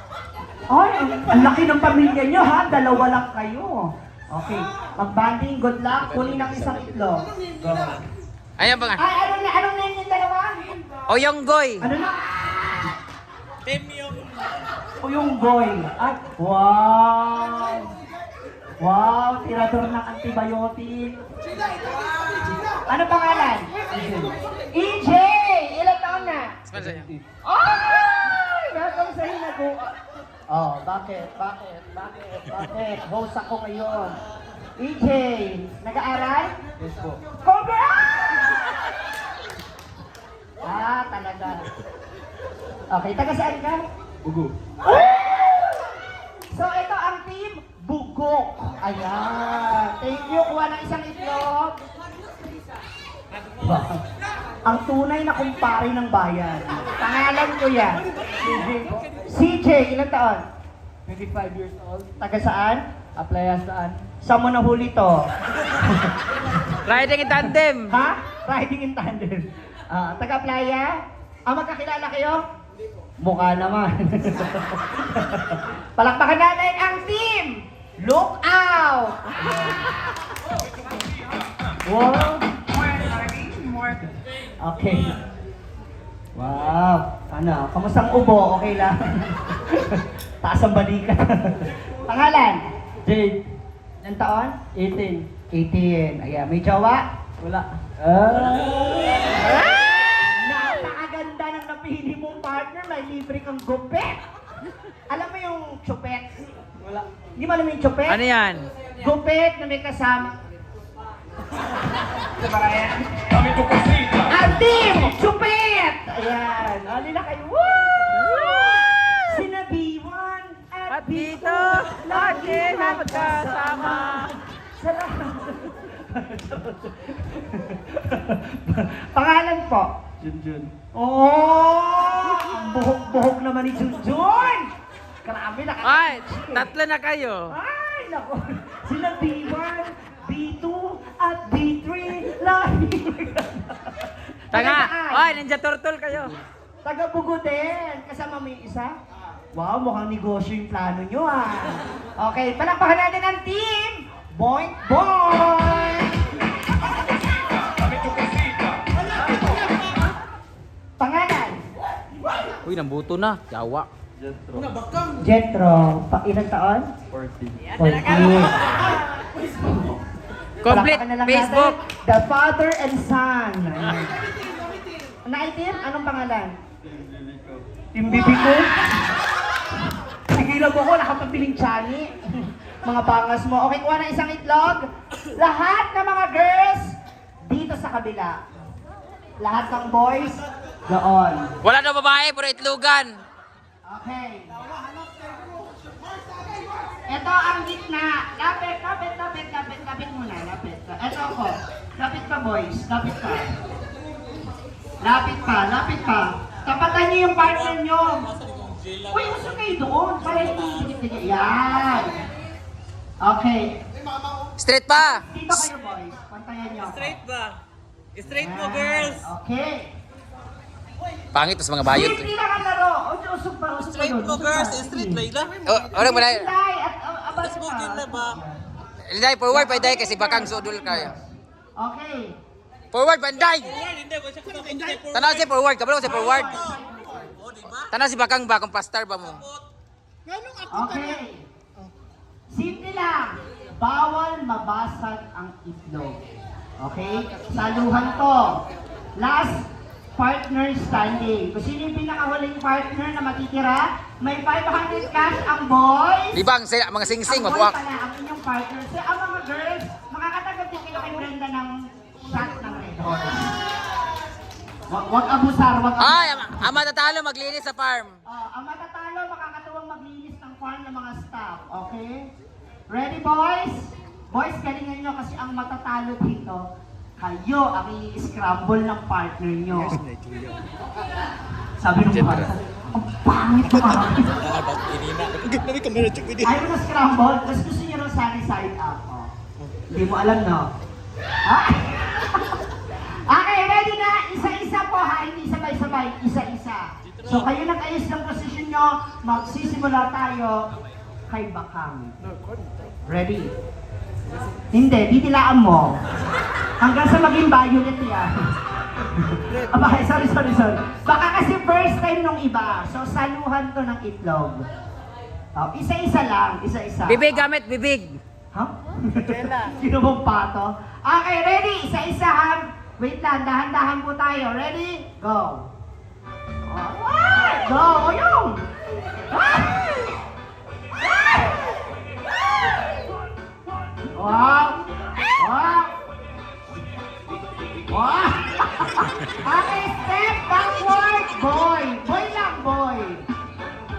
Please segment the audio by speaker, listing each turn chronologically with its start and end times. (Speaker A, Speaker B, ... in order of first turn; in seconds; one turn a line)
Speaker A: 0.7-8.0
Speaker B: 8.6-9.0
Speaker A: 9.0-10.8
Speaker B: 11.1-11.9
Speaker A: 11.8-12.9
Speaker C: 13.7-14.2
Speaker A: 15.0-17.9
Speaker A: 18.8-21.2
Speaker A: 22.9-26.6
Speaker B: 26.7-27.1
Speaker D: 26.8-27.2
Speaker A: 27.4-29.9
Speaker A: 30.5-34.1
Speaker A: 34.8-36.5
Speaker D: 36.8-37.2
Speaker A: 37.4-38.7
Speaker A: 40.6-41.7
Speaker A: 42.9-43.8
Speaker D: 44.2-44.5
Speaker A: 44.8-46.0
Speaker A: 46.5-51.8
Speaker A: 53.6-54.0
Speaker A: 54.6-58.0
Speaker D: 58.4-59.0
Speaker A: 59.3-60.4
Speaker D: 61.1-62.1
Speaker A: 62.2-62.8
Speaker D: 63.1-64.0
Speaker A: 64.2-66.7
Speaker B: 66.8-67.9
Speaker A: 67.9-72.4
Speaker A: 73.2-79.8
Speaker A: 81.9-82.5
Speaker A: 84.6-85.2
Speaker A: 86.3-92.7
Speaker D: 93.0-93.4
Speaker A: 94.0-94.6
Speaker D: 94.7-95.2
Speaker A: 95.5-97.0
Speaker D: 97.4-98.8
Speaker A: 99.1-104.2
Speaker A: 105.1-106.3
Speaker A: 107.3-108.2
Speaker B: 108.1-108.7
Speaker A: 109.0-110.4
Speaker B: 112.4-113.1
Speaker A: 113.7-129.9
Speaker B: 118.4-118.8
Speaker B: 120.9-124.4
Speaker D: 130.2-130.7
Speaker A: 130.9-134.7
Speaker A: 135.2-136.7
Speaker B: 135.8-137.5
Speaker A: 137.5-145.4
Speaker B: 144.5-146.4
Speaker A: 146.8-148.9
Speaker A: 149.5-156.2
Speaker A: 161.0-161.7
Speaker B: 162.6-163.9
Speaker D: 164.2-164.7
Speaker A: 165.2-166.9
Speaker D: 167.2-167.6
Speaker A: 167.7-168.7
Speaker A: 169.6-170.0
Speaker B: 170.6-171.8
Speaker A: 170.7-174.2
Speaker A: 175.2-176.5
Speaker A: 177.9-179.0
Speaker A: 180.3-188.4
Speaker A: 189.4-191.5
Speaker B: 191.6-193.2
Speaker A: 193.8-194.6
Speaker A: 197.1-203.6
Speaker A: 205.0-208.3
Speaker C: 208.5-208.9
Speaker A: 209.1-212.2
Speaker A: 213.2-213.8
Speaker B: 214.6-215.2
Speaker A: 214.9-217.2
Speaker C: 217.2-217.6
Speaker C: 218.2-218.9
Speaker A: 218.2-219.9
Speaker B: 221.3-222.3
Speaker A: 221.8-225.3
Speaker C: 224.1-225.6
Speaker B: 225.6-226.5
Speaker A: 225.9-228.6
Speaker B: 229.1-231.1
Speaker A: 229.5-232.3
Speaker B: 232.9-233.8
Speaker C: 233.8-235.2
Speaker B: 235.1-236.6
Speaker A: 236.0-237.4
Speaker C: 237.5-237.8
Speaker B: 237.8-239.5
Speaker A: 240.7-241.5
Speaker A: 242.5-246.2
Speaker A: 246.8-248.6
Speaker A: 249.2-256.4
Speaker B: 256.3-257.8
Speaker A: 257.2-263.6
Speaker A: 264.9-266.6
Speaker B: 266.0-268.2
Speaker A: 268.2-272.3
Speaker A: 272.9-276.6
Speaker A: 277.2-280.0
Speaker A: 281.8-284.5
Speaker B: 282.1-282.5
Speaker C: 284.9-286.1
Speaker A: 286.4-289.3
Speaker A: 289.9-290.7
Speaker A: 291.4-300.7
Speaker A: 301.3-302.1
Speaker A: 303.1-303.5
Speaker A: 304.7-306.0
Speaker A: 306.8-308.3
Speaker A: 309.0-314.7
Speaker A: 315.5-317.5
Speaker B: 317.1-318.2
Speaker A: 318.5-325.7
Speaker A: 326.6-328.6
Speaker A: 329.3-330.1
Speaker A: 331.0-331.6
Speaker A: 334.1-336.0
Speaker A: 337.5-343.2